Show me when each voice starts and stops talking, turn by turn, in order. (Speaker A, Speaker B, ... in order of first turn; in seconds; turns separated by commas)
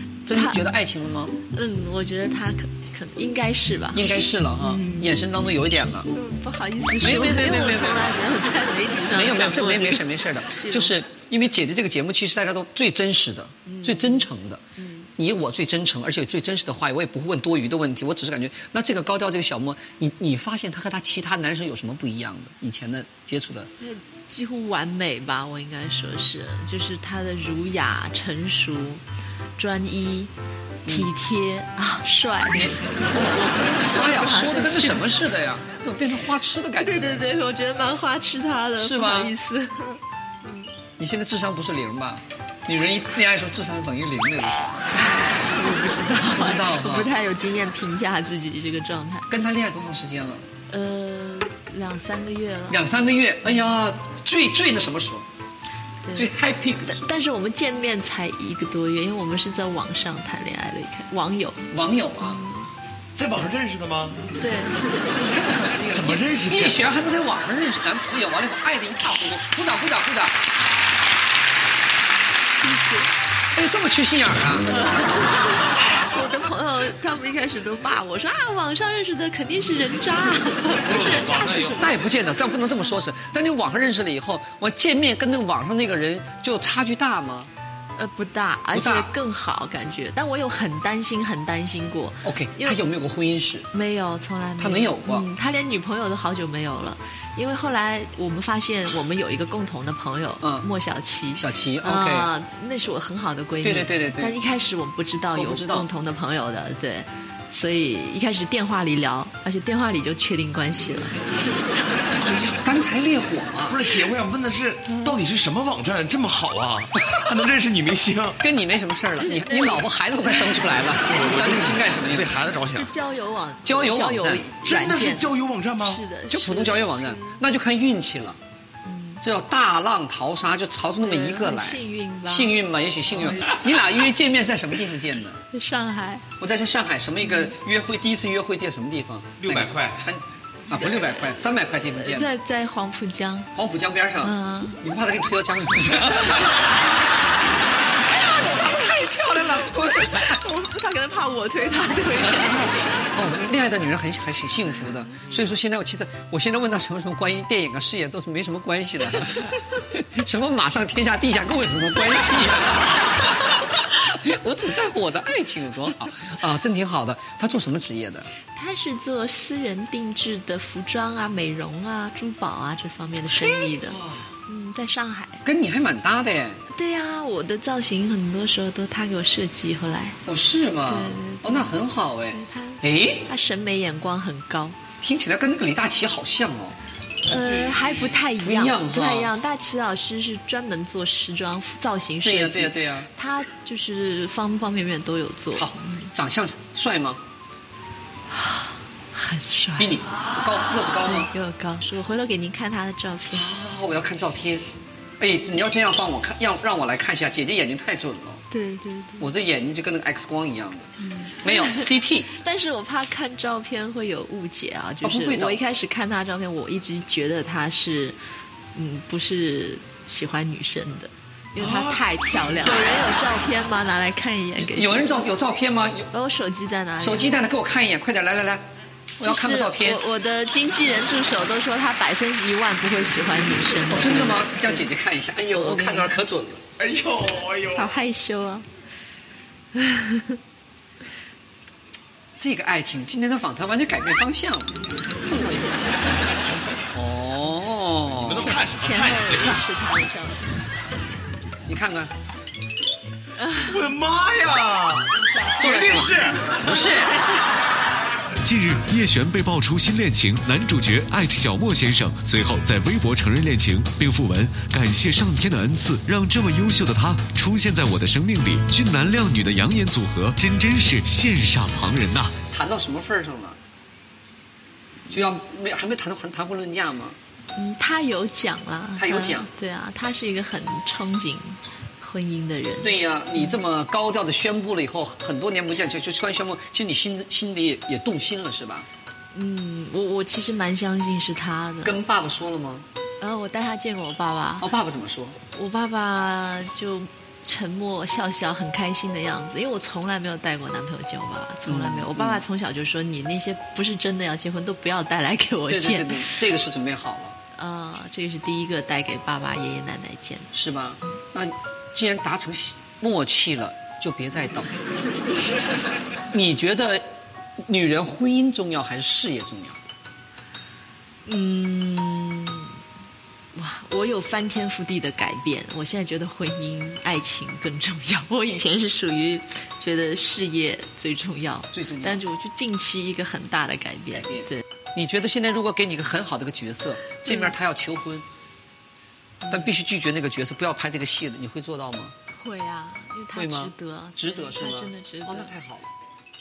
Speaker A: 0.2-1.4, Speaker B: 0.3-0.6, Speaker B: 1.5-4.1, Speaker A: 3.9-6.1, Speaker B: 6.1-10.9, Speaker A: 6.9-8.2, Speaker A: 9.1-14.6, Speaker B: 13.7-14.3, Speaker B: 14.8-15.1, Speaker A: 15.2-23.7, Speaker B: 23.8-29.0, Speaker B: 29.6-30.3, Speaker A: 30.9-31.1, Speaker B: 30.9-35.1, Speaker A: 33.7-37.4, Speaker B: 36.8-40.7, Speaker A: 38.8-39.3, Speaker A: 41.0-44.8, Speaker B: 45.0-49.3, Speaker A: 46.3-47.1, Speaker A: 49.3-50.5, Speaker B: 50.7-52.8, Speaker A: 52.7-55.2, Speaker B: 56.0-56.3, Speaker A: 56.1-57.1, Speaker B: 56.9-61.6, Speaker A: 61.7-62.4, Speaker B: 62.2-62.7, Speaker C: 63.2-64.2, Speaker B: 64.4-64.9, Speaker A: 65.1-70.3, Speaker C: 65.9-66.9, Speaker B: 72.6-73.1, Speaker A: 73.5-74.7, Speaker B: 74.7-82.0, Speaker C: 80.8-81.9, Speaker A: 81.0-87.5, Speaker B: 88.0-92.8, Speaker A: 88.7-89.1, Speaker A: 92.2-93.7, Speaker B: 93.7-111.2, Speaker A: 94.6-95.3, Speaker A: 100.4-100.7, Speaker A: 101.4-102.3, Speaker A: 103.6-104.3, Speaker A: 105.3-105.9, Speaker A: 112.6-113.9, Speaker C: 113.7-118.4, Speaker A: 118.4-122.4, Speaker B: 119.2-119.8, Speaker C: 121.1-122.9, Speaker B: 122.7-127.4, Speaker A: 123.6-124.5, Speaker C: 124.6-126.0, Speaker A: 126.3-128.4, Speaker B: 128.8-129.2, Speaker A: 129.2-135.4, Speaker B: 131.0-132.5, Speaker B: 135.5-136.3, Speaker A: 136.4-142.3, Speaker C: 139.4-140.0, Speaker B: 142.0-143.5, Speaker A: 143.5-146.6, Speaker B: 144.2-144.8, Speaker A: 148.2-150.4, Speaker B: 148.2-153.0, Speaker A: 153.1-168.3, Speaker B: 168.5-175.4, Speaker A: 173.3-174.2, Speaker A: 175.4-176.6, Speaker B: 176.7-180.2, Speaker A: 180.2-183.3, Speaker B: 180.9-181.8, Speaker B: 182.3-184.8, Speaker A: 185.0-186.8, Speaker B: 187.2-196.1, Speaker A: 188.4-189.3, Speaker A: 192.2-193.1, Speaker A: 195.6-197.2, Speaker B: 198.3-200.0, Speaker A: 199.8-201.3, Speaker B: 201.0-203.5, Speaker A: 203.3-204.6, Speaker A: 205.2-208.4, Speaker B: 208.5-209.3, Speaker A: 209.2-210.9, Speaker B: 211.0-218.2, Speaker A: 211.4-212.3, Speaker A: 215.0-215.6, Speaker B: 218.7-225.3, Speaker C: 221.6-222.0, Speaker A: 224.6-226.1, Speaker B: 226.1-227.3, Speaker A: 227.0-228.6, Speaker B: 229.2-234.9, Speaker A: 229.2-230.0, Speaker A: 233.9-236.6, Speaker B: 235.5-236.1, Speaker C: 236.8-237.9, Speaker B: 237.7-238.7, Speaker B: 239.8-240.4, Speaker A: 242.4-246.0, Speaker A: 246.9-248.6, Speaker B: 248.2-250.4, Speaker C: 248.2-249.6, Speaker A: 251.7-252.1, Speaker B: 253.4-253.9, Speaker C: 253.6-255.1, Speaker B: 255.2-257.2, Speaker A: 255.6-257.2, Speaker C: 255.6-256.6, Speaker D: 258.4-272.3, Speaker A: 272.5-273.6, Speaker A: 275.1-277.2, Speaker B: 277.5-283.6, Speaker A: 279.0-279.5, Speaker A: 282.8-288.9, Speaker B: 289.3-291.9, Speaker A: 291.8-292.9, Speaker B: 293.2-294.7, Speaker A: 294.6-295.4, Speaker B: 295.5-306.3, Speaker A: 301.6-302.4, Speaker A: 305.7-307.4, Speaker B: 307.5-310.5, Speaker A: 310.5-314.7, Speaker A: 316.3-317.1, Speaker A: 317.6-319.8, Speaker B: 321.2-322.7, Speaker B: 323.5-334.6, Speaker A: 331.7-332.2, Speaker A: 334.3-338.2, Speaker B: 337.2-337.5, Speaker B: 339.4-339.7, Speaker A: 339.5-342.1, Speaker B: 342.3-345.5, Speaker A: 343.3-345.9